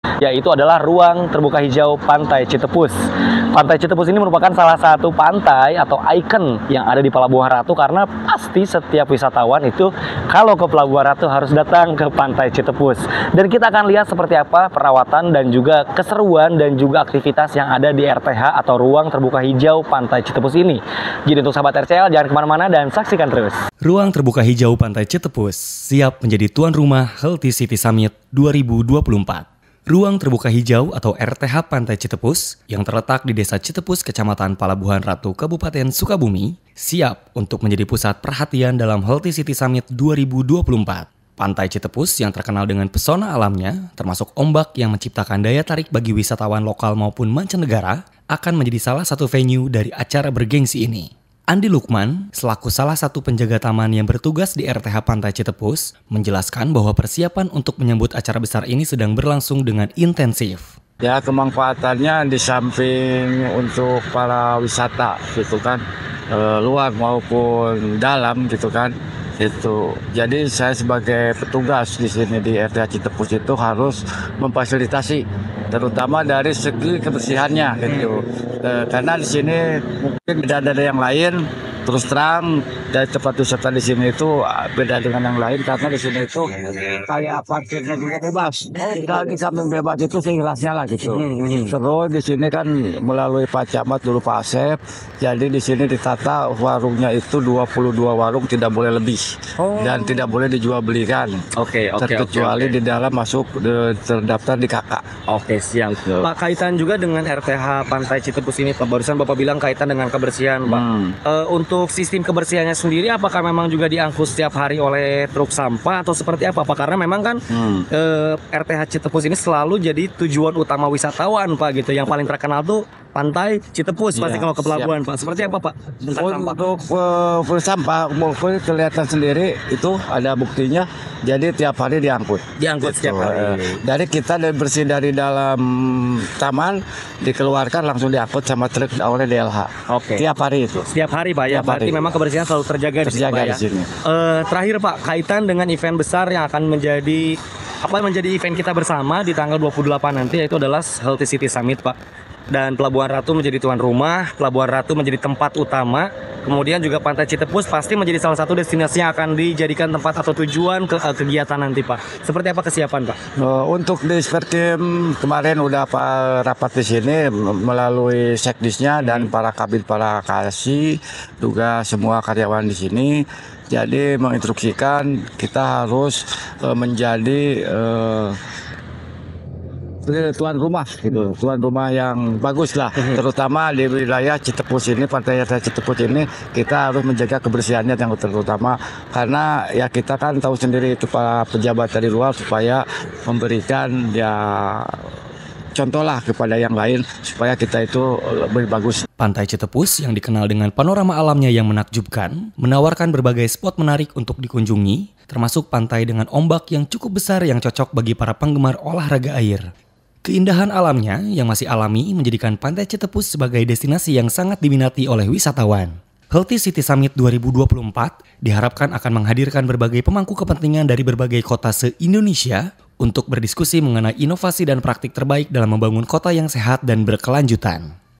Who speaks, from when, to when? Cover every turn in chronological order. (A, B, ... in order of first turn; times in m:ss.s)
0:00.2-0:03.0 A
0:03.5-0:23.6 A
0:23.8-1:00.8 B
1:01.0-1:41.4 C
1:31.1-1:31.7 A
1:39.6-1:40.3 A
1:41.6-1:42.8 A
1:42.0-1:45.1 C
1:45.3-1:57.4 A
1:50.7-1:51.2 C
1:57.5-1:57.8 C
1:57.9-2:06.6 A
2:04.2-2:04.9 C
2:06.1-2:20.9 C
2:12.6-2:13.8 A
2:19.9-2:20.2 A
2:20.9-2:32.0 A
2:21.5-2:22.1 C
2:23.0-2:23.9 C
2:32.5-2:43.2 A
2:43.4-2:58.4 C
2:49.0-2:49.3 A
3:00.0-3:15.1 C
3:15.8-3:19.1 C
3:19.2-3:29.6 B
3:30.2-3:47.9 B